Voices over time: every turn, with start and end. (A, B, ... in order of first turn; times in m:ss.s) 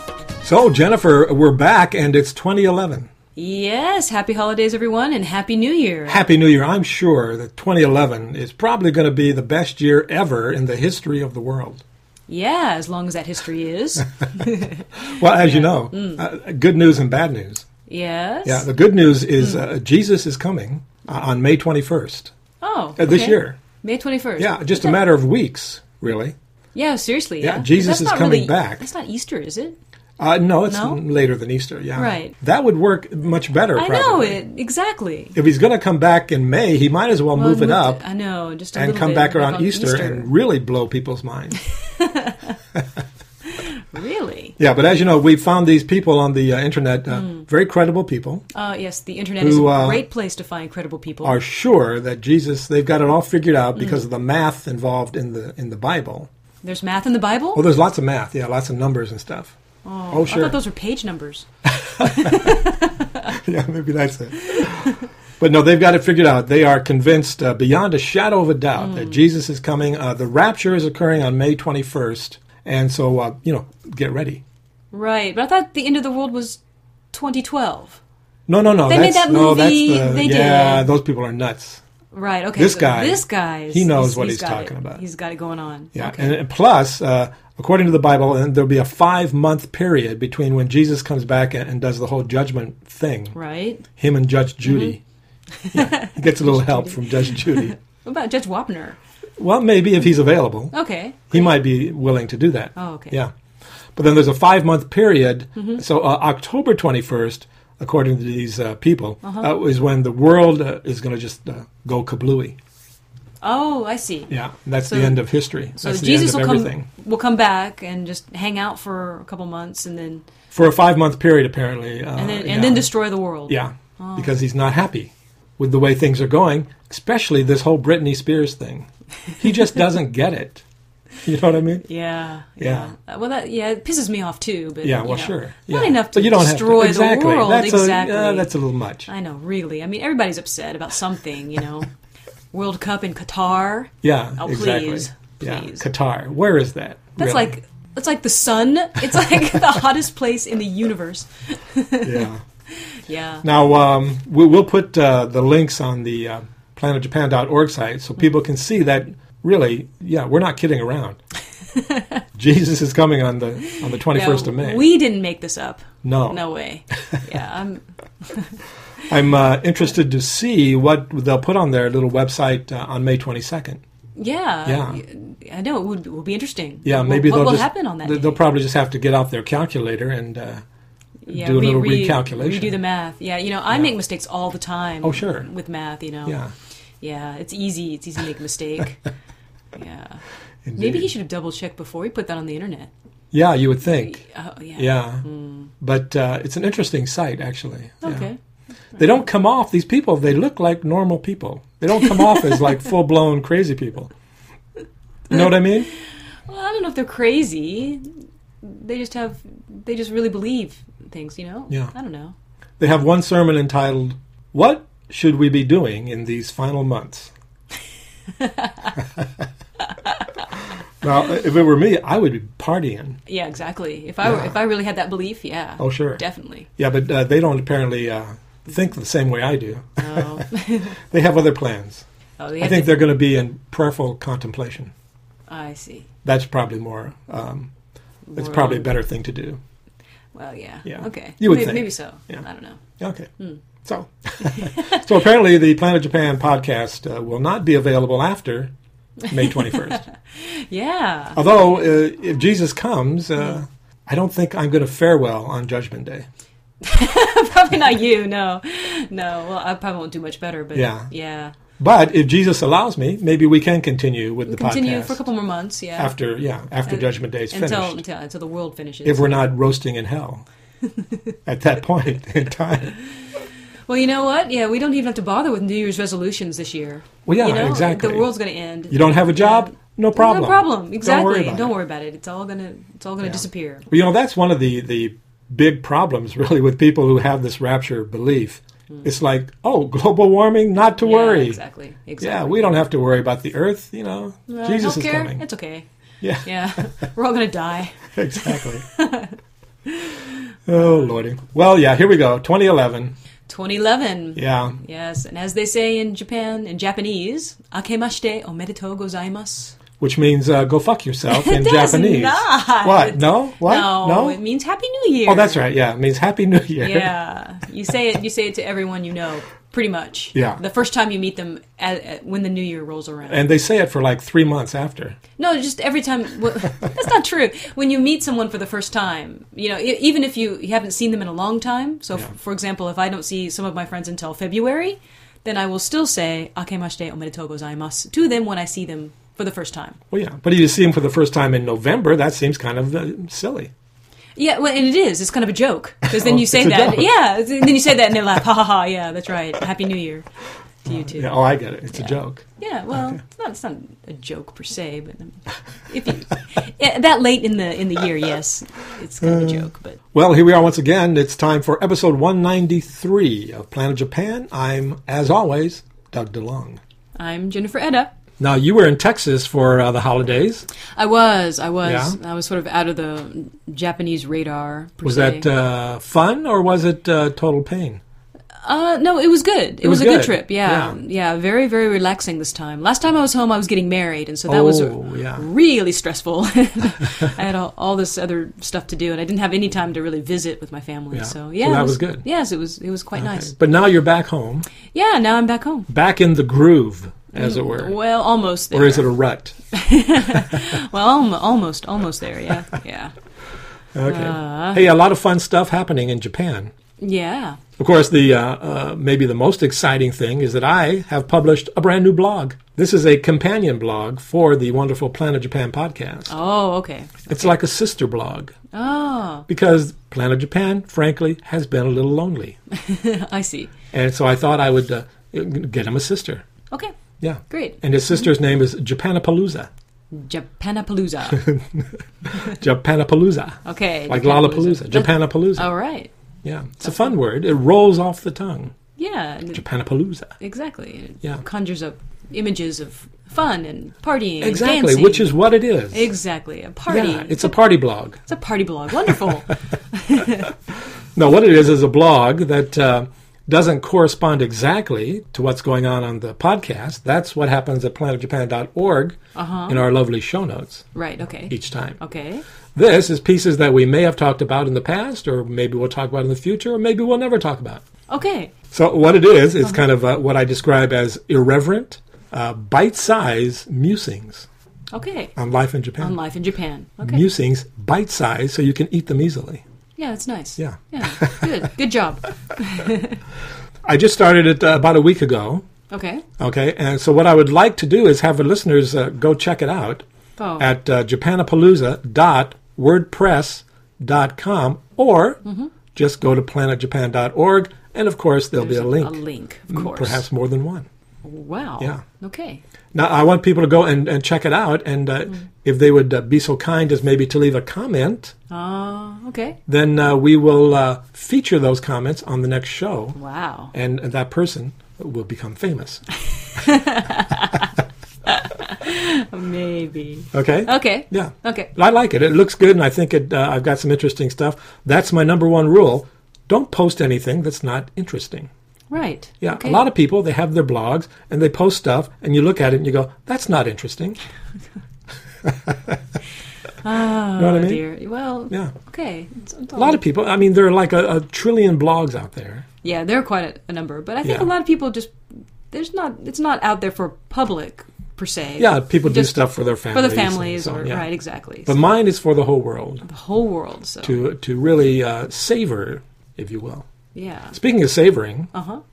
0:00.4-0:03.1 A
0:03.4-0:06.2 B
0:06.1-0:11.8 A
0:12.3-0:16.2 B
0:15.0-0:17.7 A
0:17.9-0:18.7 B
0:18.4-0:22.3 A
0:22.6-0:25.0 B
0:23.0-0:23.6 A
0:24.4-0:26.4 A
0:26.7-0:29.8 B
0:27.4-0:28.8 A
0:30.2-0:34.4 A
0:30.7-0:31.0 B
0:32.0-0:32.3 B
0:33.8-0:35.4 B
0:35.4-0:38.0 A
0:37.4-0:40.3 B
0:38.8-0:41.6 A
0:42.0-0:42.6 B
0:43.5-0:44.6 B
0:44.6-0:48.4 A
0:47.1-0:47.4 B
0:48.5-0:51.4 B
0:49.4-0:50.0 A
0:51.2-0:56.3 A
0:53.8-0:54.0 B
0:56.6-0:57.6 B
0:57.5-0:59.6 A
0:59.8-1:01.5 B
1:00.1-1:00.6 A
1:01.7-1:02.6 A
1:02.0-1:03.0 B
1:03.3-1:14.4 A
1:08.8-1:09.2 B
1:14.9-1:16.6 B
1:17.1-1:18.0 B
1:18.5-1:21.8 A
1:18.9-1:20.9 B
1:22.1-1:26.4 B
1:22.6-1:25.0 A
1:25.9-1:33.4 A
1:33.3-1:33.8 B
1:34.0-1:35.0 A
1:34.6-1:35.0 B
1:35.6-1:39.0 B
1:35.7-1:37.7 A
1:39.4-1:40.7 A
1:40.7-1:41.5 B
1:41.3-1:43.3 A
1:42.8-1:43.2 B
1:44.0-1:52.6 A
1:45.6-1:45.8 B
1:49.2-1:49.5 B
1:53.4-1:54.3 B
1:54.3-1:56.9 A
1:54.8-1:55.2 B
1:55.8-2:00.2 B
2:00.5-2:02.9 A
2:02.2-2:04.4 B
2:03.5-2:10.6 A
2:11.2-2:11.9 A
2:11.8-2:18.5 B
2:12.6-2:12.9 A
2:14.8-2:19.1 A
2:19.1-2:21.9 B
2:22.5-2:25.9 B
2:24.0-2:27.5 A
2:27.2-2:32.3 B
2:32.0-2:32.4 A
2:33.1-2:33.4 B
2:33.4-2:41.2 A
2:41.7-2:42.2 B
2:42.4-2:44.9 A
2:44.0-2:48.6 B
2:46.0-2:46.4 A
2:49.1-2:53.8 A
2:54.2-2:58.4 B
2:54.6-2:55.0 A
2:56.8-3:00.6 A
3:01.2-3:06.4 B
3:01.3-3:02.8 A
3:05.0-3:05.5 A
3:06.3-3:06.5 A
3:07.0-3:09.0 B
3:09.7-3:10.2 B
3:10.6-3:11.1 A
3:10.8-3:12.9 B
3:13.3-3:14.2 A
3:13.8-3:15.7 B
3:14.8-3:15.2 A
3:15.8-3:18.3 A
3:18.0-3:18.4 B
3:19.0-3:24.1 A
3:25.3-3:25.9 A
3:26.5-3:28.1 B
3:28.6-3:32.3 B
3:32.8-3:37.3 A
3:38.4-3:38.7 B
3:41.0-3:43.2 A
3:43.3-3:46.7 B
3:44.2-3:44.5 A
3:45.8-3:46.2 A
3:46.8-3:52.0 A
3:50.0-3:51.0 B
3:52.4-3:53.0 B
3:52.6-3:54.9 A
3:55.5-3:56.1 B
3:56.2-3:57.7 A
3:58.3-3:58.9 B
3:58.4-3:59.6 A
4:00.4-4:02.8 B
4:00.9-4:02.4 A
4:03.0-4:03.3 A
4:03.8-4:08.7 A
4:04.4-4:05.1 B
4:09.3-4:10.0 A
4:09.4-4:11.4 B
4:11.4-4:16.3 A
4:16.8-4:21.6 B
4:20.7-4:21.1 A
4:21.8-4:25.3 A
4:24.5-4:26.2 B
4:26.0-4:28.0 A
4:26.9-4:29.5 B
4:29.0-4:30.5 A
4:31.5-4:32.9 A
4:33.9-4:43.9 B
4:37.2-4:38.3 A
4:38.9-4:41.8 A
4:43.2-4:51.6 A
4:51.0-4:52.8 B
4:52.2-4:55.4 A
4:54.5-4:55.9 B
4:56.2-4:56.5 A
4:56.4-4:59.4 B
4:58.2-4:58.9 A
4:59.9-5:00.2 B
5:00.7-5:03.2 A
5:00.8-5:01.1 B
5:03.5-5:09.8 B
5:04.4-5:04.8 A
5:10.0-5:14.4 A
5:11.3-5:15.7 B
5:15.3-5:17.1 A
5:16.8-5:23.4 B
5:20.3-5:20.6 A
5:23.3-5:25.2 A
5:25.4-5:40.0 B
5:40.1-5:43.7 A
5:44.4-5:50.3 B
5:46.1-5:47.1 A
5:50.8-5:51.4 B
5:50.9-5:53.2 A
5:51.9-6:00.0 B
5:59.2-6:06.8 A
6:07.2-6:08.1 B
6:08.4-6:10.7 A
6:11.0-6:15.5 B
6:11.8-6:12.2 A
6:15.0-6:18.0 A
6:18.6-6:33.5 B
6:19.8-6:21.0 A
6:24.5-6:25.4 A
6:31.1-6:32.2 A
6:33.2-6:34.7 A
6:34.9-6:35.9 B
6:35.9-6:38.0 A
6:37.3-6:39.1 B
6:38.7-6:39.6 A
6:39.7-6:43.1 B
6:40.3-6:40.6 A
6:44.0-6:46.7 A
6:44.0-6:44.8 B
6:47.0-6:47.6 B
6:47.8-6:56.3 A
6:56.3-6:57.5 B
6:57.3-6:58.6 A
6:58.7-6:59.5 B
6:59.5-7:02.6 A
7:02.7-7:03.7 B
7:03.9-7:06.4 A
7:07.2-7:09.7 A
7:07.5-7:08.2 B
7:10.1-7:11.5 B
7:11.4-7:15.7 A
7:13.6-7:16.1 B
7:16.4-7:18.7 A
7:16.8-7:17.2 B
7:19.0-7:19.6 B
7:19.5-7:20.3 A
7:20.4-7:25.4 B
7:24.4-7:26.1 A
7:25.9-7:27.5 B
7:26.9-7:28.2 A
7:28.3-7:30.5 B
7:31.2-7:39.2 A
7:39.4-7:39.8 B
7:39.7-7:40.9 A
7:40.9-7:42.4 B
7:41.5-7:42.0 A
7:42.8-7:47.8 A
7:48.1-7:48.5 B
7:48.7-7:54.5 A
7:54.9-7:55.3 B
7:55.4-7:56.2 A
7:56.0-7:57.3 B
7:57.0-7:59.6 A
8:00.0-8:03.2 B
8:00.6-8:01.7 A
8:03.8-8:05.6 A
8:05.9-8:06.2 B
8:06.4-8:10.0 A
8:10.4-8:10.7 B
8:10.6-8:15.4 A
8:15.4-8:15.7 B
8:15.9-8:19.2 A
8:18.6-8:20.2 B
8:19.7-8:20.9 A
8:21.2-8:22.6 B
8:22.9-8:28.3 A
8:28.5-8:29.6 B
8:29.7-8:33.2 A
8:33.2-8:33.7 B
8:33.7-8:36.0 A
8:36.4-8:37.7 B
8:38.3-8:41.7 B
8:40.3-8:48.5 A
8:48.9-8:49.8 B
8:49.4-8:54.2 A
8:55.4-8:56.0 A
8:56.8-9:00.0 B
8:57.4-8:57.9 A
8:59.8-9:02.7 A
9:02.8-9:05.2 B
9:04.2-9:04.5 A
9:05.7-9:11.8 B
9:08.6-9:11.1 A
9:11.7-9:13.0 A
9:13.0-9:14.2 B
9:14.0-9:16.9 A
9:17.1-9:17.6 B
9:17.5-9:18.5 A
9:18.5-9:18.8 B